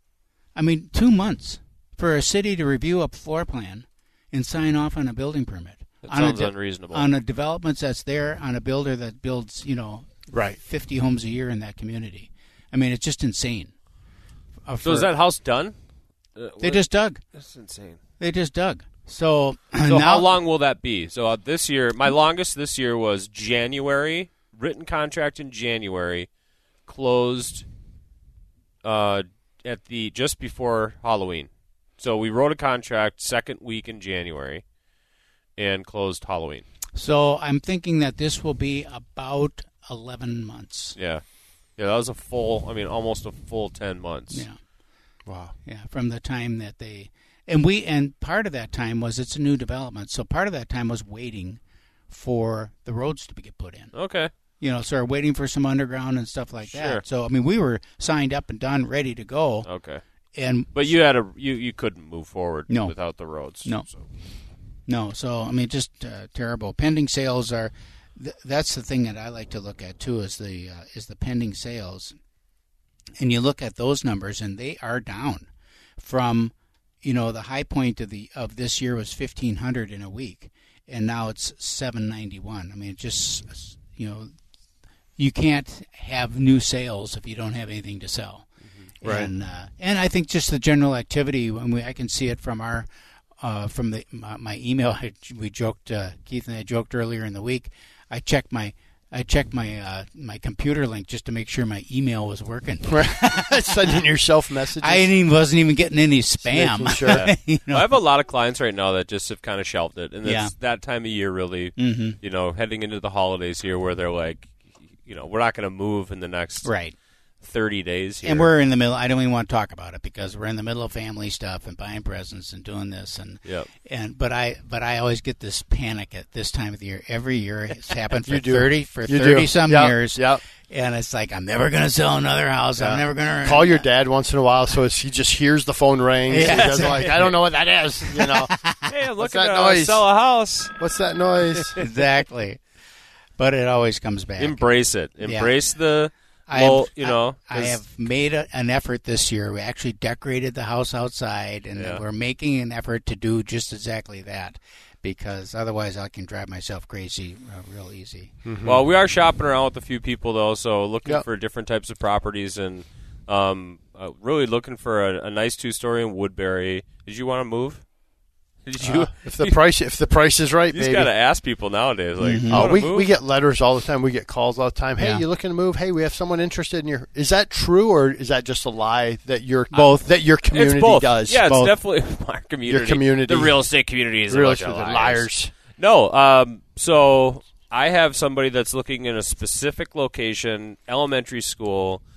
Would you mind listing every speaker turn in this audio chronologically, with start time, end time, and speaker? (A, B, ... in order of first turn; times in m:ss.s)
0:00.6-0:13.7 A
0:06.0-0:07.1 B
0:10.3-0:10.6 C
0:14.7-0:15.1 A
0:14.8-0:15.8 B
0:16.4-0:16.8 B
0:16.6-0:17.2 A
0:17.4-0:18.0 B
0:18.2-0:20.4 A
0:19.9-0:26.3 B
0:26.9-0:27.6 B
0:28.8-0:34.6 B
0:35.6-0:36.6 B
0:37.0-0:41.0 A
0:41.0-0:41.2 B
0:41.8-0:44.5 B
0:44.3-0:44.6 A
0:45.3-0:45.6 C
0:45.6-0:51.6 A
0:52.1-0:53.9 A
0:54.0-0:54.3 B
0:54.6-0:59.7 A
0:56.6-0:57.0 B
0:59.6-1:00.0 B
1:00.4-1:00.9 A
1:00.7-1:04.0 B
1:02.7-1:02.9 A
1:04.9-1:12.2 A
1:13.2-1:24.3 A
1:25.2-1:28.5 A
1:29.0-1:32.9 A
1:29.0-1:29.3 C
1:33.4-1:43.9 A
1:42.9-1:45.2 C
1:44.8-1:48.0 A
1:46.4-1:47.3 C
1:47.1-1:56.7 B
1:50.2-1:50.5 A
1:51.8-1:52.2 A
1:56.6-1:56.9 A
1:57.4-1:58.5 B
1:58.2-2:13.9 A
2:08.2-2:10.4 C
2:12.8-2:18.6 C
2:16.3-2:17.2 A
2:16.4-2:17.3 B
2:18.5-2:18.8 A
2:18.9-2:20.7 B
2:19.2-2:20.1 C
2:20.8-2:21.8 C
2:21.8-2:22.6 A
2:23.4-2:25.6 A
2:24.4-2:27.8 B
2:26.5-2:38.3 A
2:31.8-2:32.0 B
2:38.4-2:38.8 C
2:38.6-2:47.8 B
2:48.7-2:49.6 B
2:48.8-2:51.1 C
2:50.7-2:53.1 B
2:52.2-2:52.7 A
2:52.5-3:01.5 C
2:55.0-2:55.2 A
2:59.7-3:00.2 A
3:00.5-3:12.0 B
3:01.4-3:01.8 A
3:02.7-3:03.6 C
3:04.3-3:05.5 C